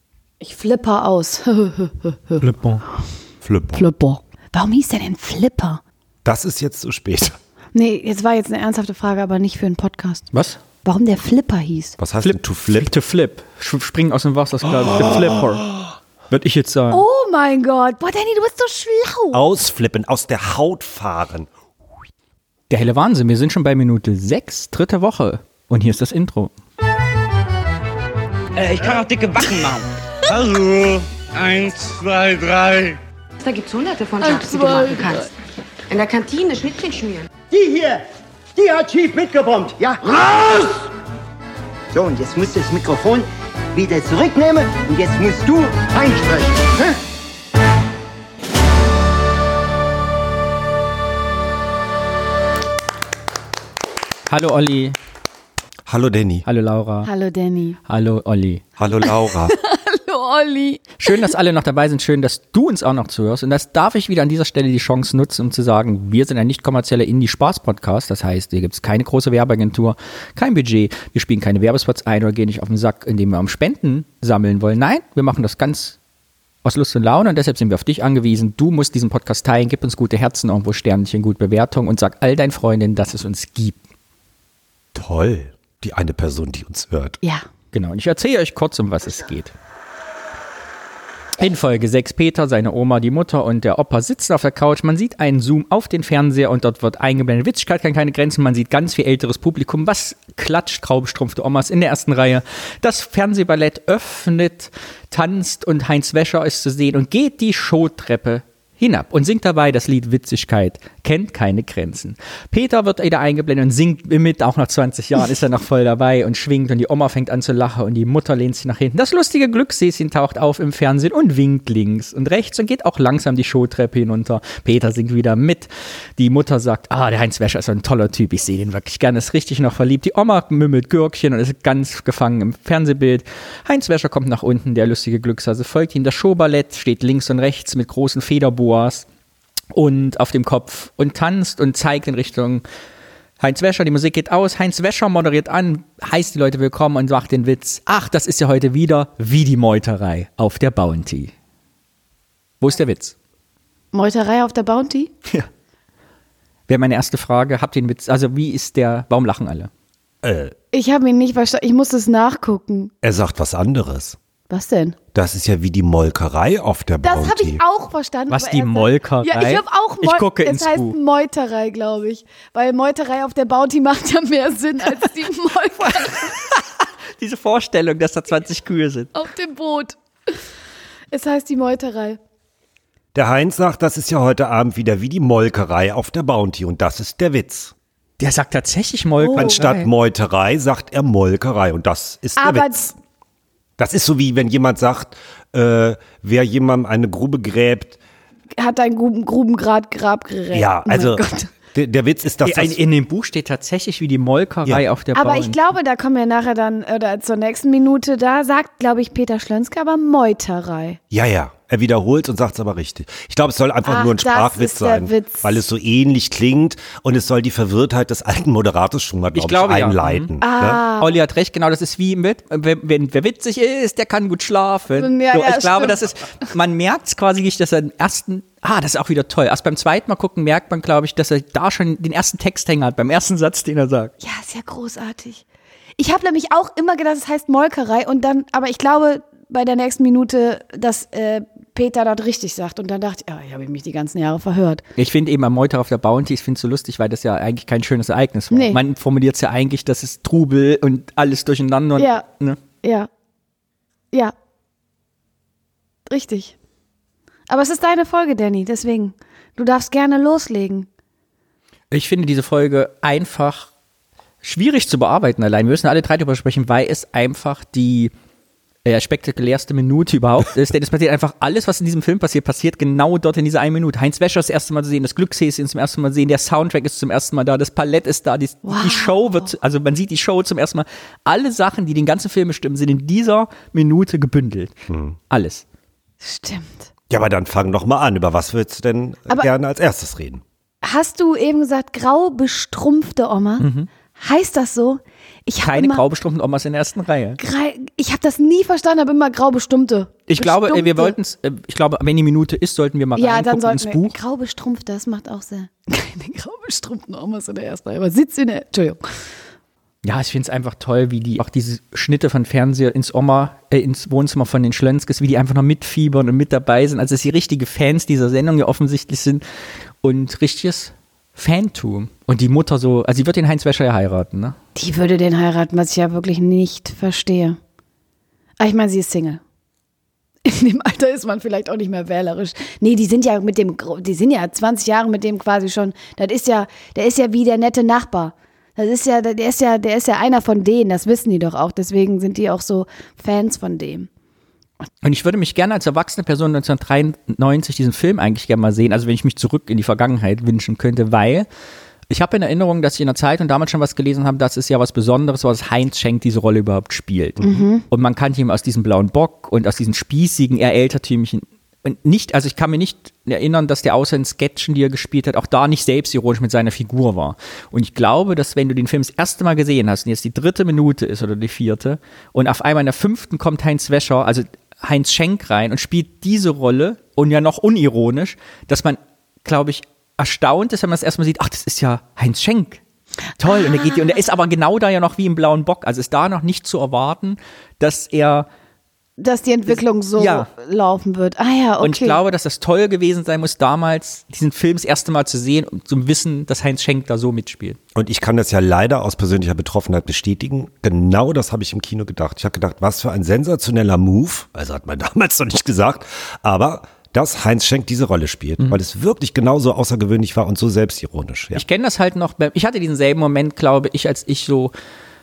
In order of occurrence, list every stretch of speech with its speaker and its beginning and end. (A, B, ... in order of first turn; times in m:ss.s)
0:00.4-0:02.5 A
0:02.4-0:02.8 B
0:03.4-0:03.8 C
0:03.7-0:05.8 A
0:06.2-0:07.4 C
0:07.7-0:10.3 A
0:10.3-0:10.6 B
0:10.8-0:12.0 A
0:12.0-0:12.9 C
0:12.2-0:15.7 B
0:16.3-0:17.0 B
0:16.9-0:19.4 A
0:19.3-0:21.5 C
0:22.7-0:26.5 B
0:28.6-0:29.8 D
0:29.0-0:33.0 E
0:33.4-0:35.3 F
0:34.2-0:35.3 A
0:35.9-0:37.3 F
0:37.5-0:40.9 D
0:41.9-0:47.0 D
0:54.3-0:55.0 B
0:55.9-0:56.5 C
0:56.5-0:57.1 B
0:57.0-0:57.8 A
0:57.9-0:58.6 B
0:58.8-0:59.6 C
0:59.0-1:01.0 A
1:01.0-1:16.0 B
1:16.6-1:23.8 B
1:25.0-1:27.2 C
1:27.7-1:29.5 B
1:31.4-2:19.1 B
2:19.7-2:22.6 B
2:23.4-2:31.3 B
2:32.6-2:33.2 B
2:33.9-2:35.1 A
2:36.7-2:39.7 B
2:40.2-2:40.5 C
2:40.7-2:42.9 A
2:43.0-2:44.2 C
2:44.5-2:45.0 A
2:45.1-2:47.6 C
2:47.0-2:56.3 A
2:48.3-2:51.0 B
2:55.8-2:59.2 B
2:59.2-3:00.0 A
3:01.1-3:02.2 A
3:03.1-3:07.7 C
3:08.2-3:09.8 B
3:09.2-3:09.8 A
3:09.4-3:12.9 C
3:12.4-3:12.9 A
3:13.8-3:18.0 C
3:18.6-3:21.5 A
3:20.5-3:22.8 C
3:22.4-3:25.6 B
3:25.1-3:31.0 A
3:31.1-3:40.8 C
3:33.8-3:35.6 A
3:39.3-3:40.3 B
3:40.4-3:41.1 A
3:41.0-3:54.1 B
3:44.9-3:46.0 A
3:54.2-3:55.4 A
3:56.0-4:04.8 A
4:05.0-4:12.6 B
4:08.5-4:08.8 A
4:12.0-4:12.3 A
4:12.8-4:13.1 A
4:16.1-4:16.6 A
4:17.5-4:20.9 A
4:21.9-4:23.7 B
4:24.4-4:28.1 B
4:28.9-4:44.7 B
4:38.6-4:39.5 A
4:44.9-4:45.2 C
4:45.3-4:45.6 B
4:46.2-4:46.9 A
4:47.1-4:50.4 C
4:50.8-4:56.0 A
4:53.6-4:53.9 B
4:55.6-4:57.4 B
4:57.4-5:01.2 A
5:00.3-5:04.2 B
5:03.2-5:09.0 A
5:10.0-5:19.4 B
5:20.0-5:24.6 B
5:24.8-5:27.6 A
5:28.6-5:29.4 A
5:30.4-5:44.1 A
5:45.0-5:51.5 B
5:52.1-6:22.8 B
5:57.4-5:57.8 A
6:23.4-6:28.5 B
6:29.2-6:32.2 A
6:29.7-6:30.5 B
6:31.8-6:37.8 B
6:38.0-6:51.6 C
6:51.5-6:54.7 B